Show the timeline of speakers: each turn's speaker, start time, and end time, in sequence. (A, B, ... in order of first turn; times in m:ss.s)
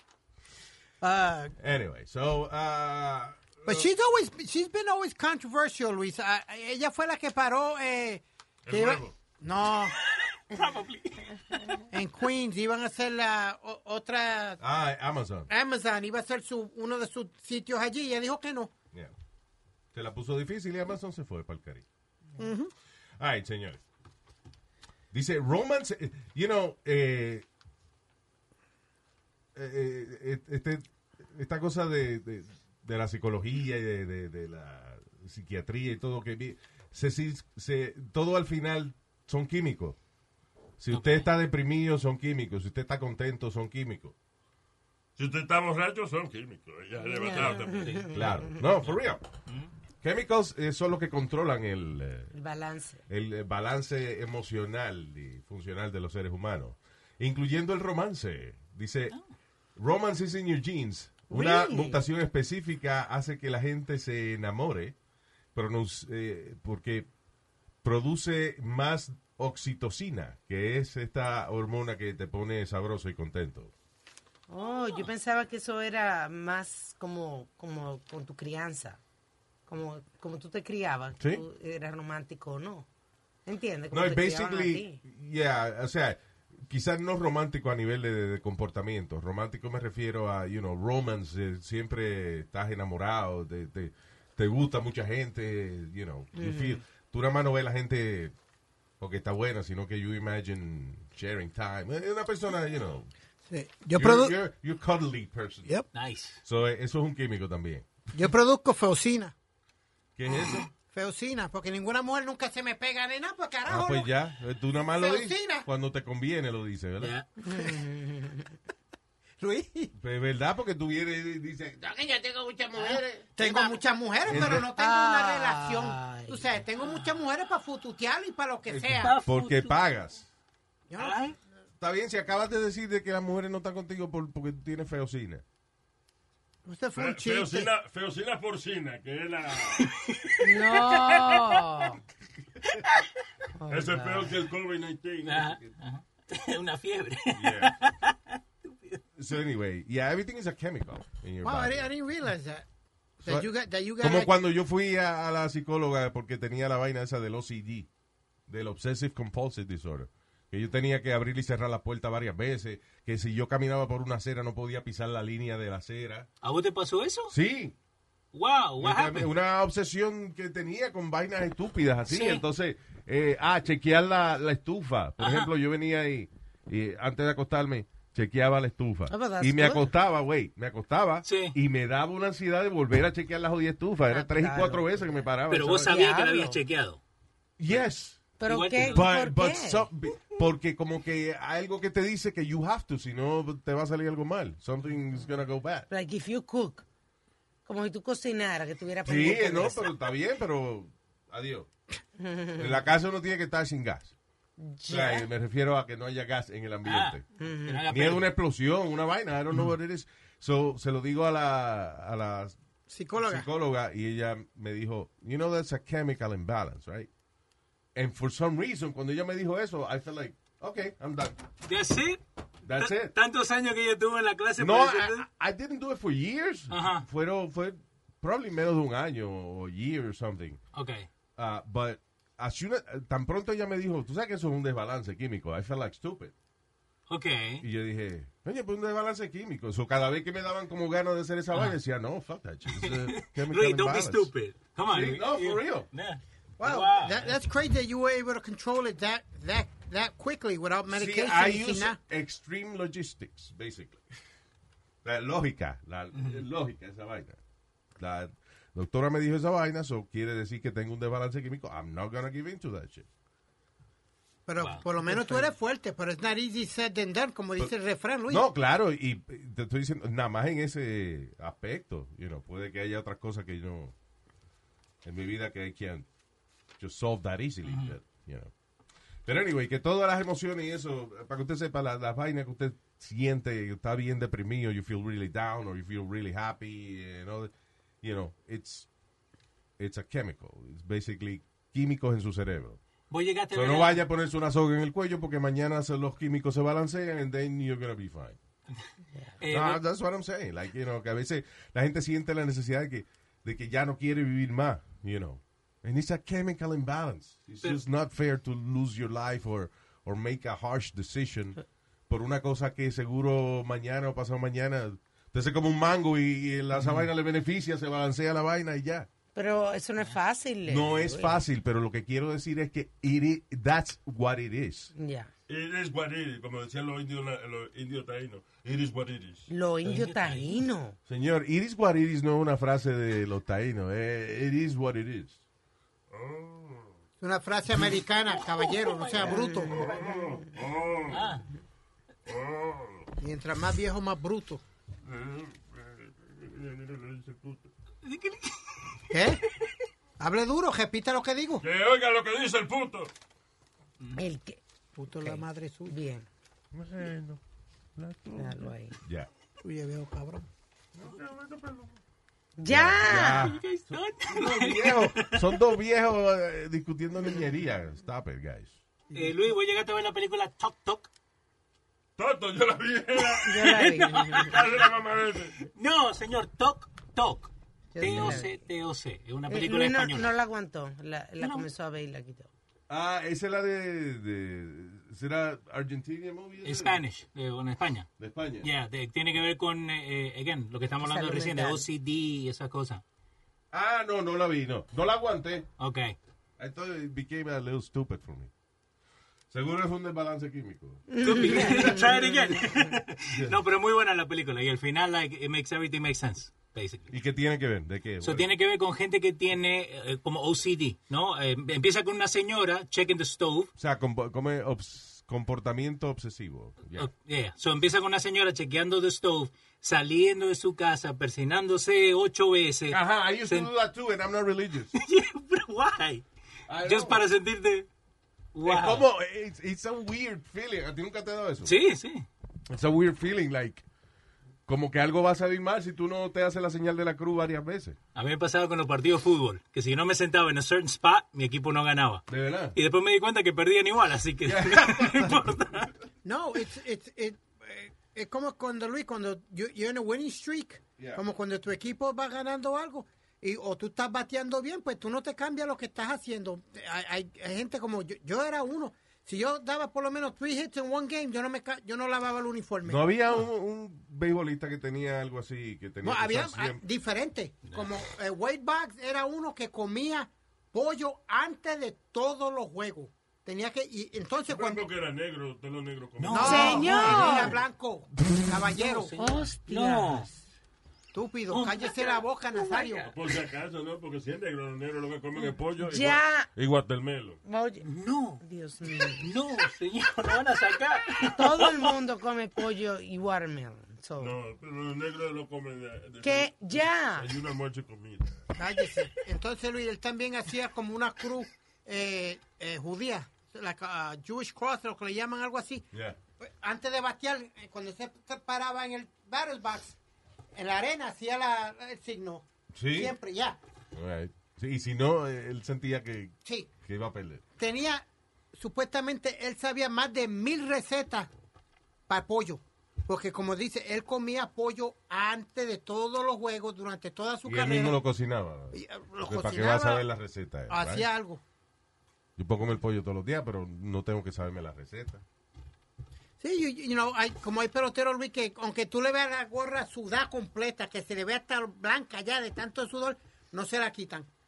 0:01.0-0:01.5 A
0:01.6-0:03.9 B
0:03.7-0:10.0 A
0:08.7-0:09.2 C
0:10.3-0:11.8 D
0:11.9-0:14.6 A
0:14.6-0:15.5 B
0:15.5-0:18.7 A
0:19.9-0:21.8 B
0:22.4-0:22.7 A
0:23.2-0:23.8 B
0:25.1-0:27.5 B
0:29.6-0:40.0 B
0:40.8-0:44.1 B
0:40.9-0:41.3 D
0:45.2-0:48.1 C
0:47.1-0:48.5 E
0:47.8-0:48.6 D
0:48.1-0:49.2 B
0:50.0-0:52.3 B
0:52.3-0:53.0 E
0:53.1-0:59.2 B
0:59.8-1:05.0 B
1:01.3-1:02.0 E
1:05.6-1:07.1 B
1:07.8-1:13.7 B
1:14.5-1:19.0 E
1:19.7-1:22.9 E
1:21.2-1:21.4 B
1:23.5-1:25.0 E
1:23.9-1:38.4 B
1:36.3-1:36.8 E
1:39.0-1:43.1 B
1:43.5-1:44.3 A
1:43.9-1:45.7 B
1:45.9-1:46.4 D
1:46.4-1:47.9 B
1:48.1-1:49.3 A
1:50.2-1:50.7 B
1:50.9-1:54.1 A
1:53.7-1:57.2 B
1:55.0-1:55.7 A
1:57.0-1:57.3 D
1:57.4-1:58.5 E
1:57.4-1:57.8 A
1:59.4-1:59.9 A
2:00.0-2:03.4 B
2:02.8-2:03.7 D
2:03.4-2:09.1 A
2:04.2-2:04.7 B
2:04.4-2:06.5 E
2:08.7-2:10.3 B
2:09.0-2:09.8 D
2:10.9-2:11.2 A
2:11.0-2:11.4 D
2:11.8-2:15.4 B
2:16.7-2:17.7 A
2:17.0-2:20.0 C
2:19.9-2:21.2 D
2:20.4-2:22.0 E
2:22.7-2:23.0 D
2:23.6-2:24.4 E
2:23.7-2:25.6 C
2:25.2-2:29.0 D
2:27.4-2:27.7 B
2:29.2-2:31.9 B
2:31.4-2:32.7 A
2:33.2-2:34.3 A
2:33.2-2:37.9 B
2:38.5-2:46.3 B
2:46.4-2:47.3 D
2:47.3-2:47.8 B
2:48.3-2:49.3 D
2:48.8-3:06.0 B
2:52.1-2:52.4 D
2:55.2-2:55.5 D
2:59.1-2:59.9 E
3:01.3-3:01.6 D
3:04.1-3:05.2 E
3:05.5-3:07.0 D
3:05.8-3:06.6 E
3:07.6-3:08.2 B
3:08.4-3:09.9 E
3:08.5-3:09.1 D
3:08.8-3:15.9 B
3:15.9-3:16.8 E
3:17.7-3:19.9 E
3:19.0-3:21.7 B
3:22.2-3:22.6 E
3:22.6-3:24.1 B
3:24.6-3:25.3 E
3:24.9-3:27.2 B
3:26.8-3:28.3 D
3:27.4-3:27.8 E
3:27.9-3:32.6 B
3:32.9-3:33.5 A
3:33.2-3:37.1 B
3:38.0-3:41.4 B
3:41.7-3:42.2 D
3:42.6-3:43.2 B
3:42.8-3:45.2 D
3:44.6-3:50.6 B
3:46.7-3:47.1 D
3:50.7-3:51.1 D
3:51.4-3:56.3 B
3:57.1-3:57.6 D
3:57.6-4:04.3 B
4:02.7-4:07.4 D
4:04.9-4:05.9 B
4:06.6-4:12.0 A
4:10.9-4:14.0 B
4:15.0-4:17.4 B
4:16.2-4:16.4 D
4:18.0-4:23.1 B
4:24.5-4:28.4 A
4:24.6-4:24.9 D
4:28.3-4:33.9 B
4:35.0-4:36.1 B
4:36.8-4:38.5 B
4:37.7-4:37.9 D
4:39.3-4:48.9 B
4:49.8-4:52.8 B
4:53.1-4:54.0 D
4:53.5-4:58.4 B
4:59.4-4:59.8 D
4:59.5-5:11.6 B
5:12.1-5:19.1 B
5:16.8-5:17.0 D
5:19.4-5:21.4 E
5:20.7-5:24.9 B
5:25.0-5:25.3 E
5:25.5-5:29.5 C
5:29.5-5:31.0 E
5:29.8-5:30.6 D
5:31.1-5:35.4 B
5:36.1-5:36.9 C
5:37.2-5:39.9 A
5:38.6-5:39.4 D
5:39.2-5:40.5 E
5:39.7-5:41.3 C
5:41.1-5:41.5 D
5:42.3-5:43.1 C
5:43.2-5:44.6 A
5:45.0-5:47.7 C
5:48.0-5:48.8 D
5:49.1-5:49.4 A
5:50.2-5:51.6 A
5:51.6-5:53.1 C
5:54.2-5:54.6 E
5:55.0-5:56.0 A
5:55.2-5:56.3 E
5:56.7-5:57.4 B
5:58.0-5:59.3 B
5:58.4-5:59.0 E
5:59.6-6:00.5 A
6:01.0-6:01.4 B
6:01.1-6:01.9 C
6:02.6-6:03.5 E
6:02.7-6:03.6 B
6:03.1-6:05.6 D
6:04.3-6:08.8 B
6:09.1-6:11.1 D
6:12.2-6:15.6 C
6:13.4-6:14.6 D
6:13.4-6:14.6 E
6:15.7-6:20.3 D
6:17.9-6:18.6 E
6:18.0-6:18.4 B
6:19.5-6:22.5 E
6:21.4-6:21.7 D
6:22.9-6:27.0 B
6:26.6-6:28.1 D
6:28.2-6:28.7 B
6:28.6-6:33.0 D
6:31.0-6:31.8 E
6:33.7-6:35.7 B
6:35.8-6:36.2 D
6:36.6-6:38.5 B
6:39.5-6:42.6 B
6:41.1-6:42.2 E
6:41.2-6:47.1 D
6:43.3-6:43.6 B
6:47.1-6:48.5 B
6:48.2-6:53.7 D
6:53.8-6:57.1 B
6:57.0-7:03.7 D
7:02.9-7:05.0 B
7:05.0-7:06.2 D
7:06.7-7:07.2 B
7:06.8-7:07.9 D
7:08.6-7:09.1 D
7:08.6-7:11.8 B
7:11.6-7:12.3 D
7:12.7-7:13.8 B
7:14.7-7:18.0 B
7:18.2-7:25.9 D
7:22.3-7:22.8 B
7:24.4-7:25.5 B
7:26.2-7:43.0 A
7:42.8-7:46.8 B
7:46.0-7:54.9 A
7:54.5-7:57.1 C
7:56.2-7:57.6 D
7:56.3-7:59.1 A
7:56.4-7:57.6 E
7:58.7-8:00.3 D
7:59.2-8:00.3 E
8:01.1-8:03.1 A
8:01.5-8:03.1 D
8:03.1-8:07.4 C
8:05.8-8:06.5 E
8:07.4-8:07.9 E
8:07.8-8:08.4 D
8:08.4-8:09.3 E
8:09.0-8:12.0 D
8:11.4-8:14.4 E
8:14.2-8:18.4 C
8:16.2-8:17.3 E
8:18.6-8:25.9 A
8:25.9-8:26.2 B
8:26.4-8:30.0 A
8:30.5-8:33.6 A
8:32.7-8:33.2 B
8:33.9-8:37.4 B
8:36.4-8:36.7 A
8:37.6-8:41.3 A
8:42.1-8:48.0 A
8:47.4-8:51.1 B
8:48.7-8:50.0 A
8:50.7-8:51.4 A
8:52.4-8:55.2 B
8:56.4-9:04.3 A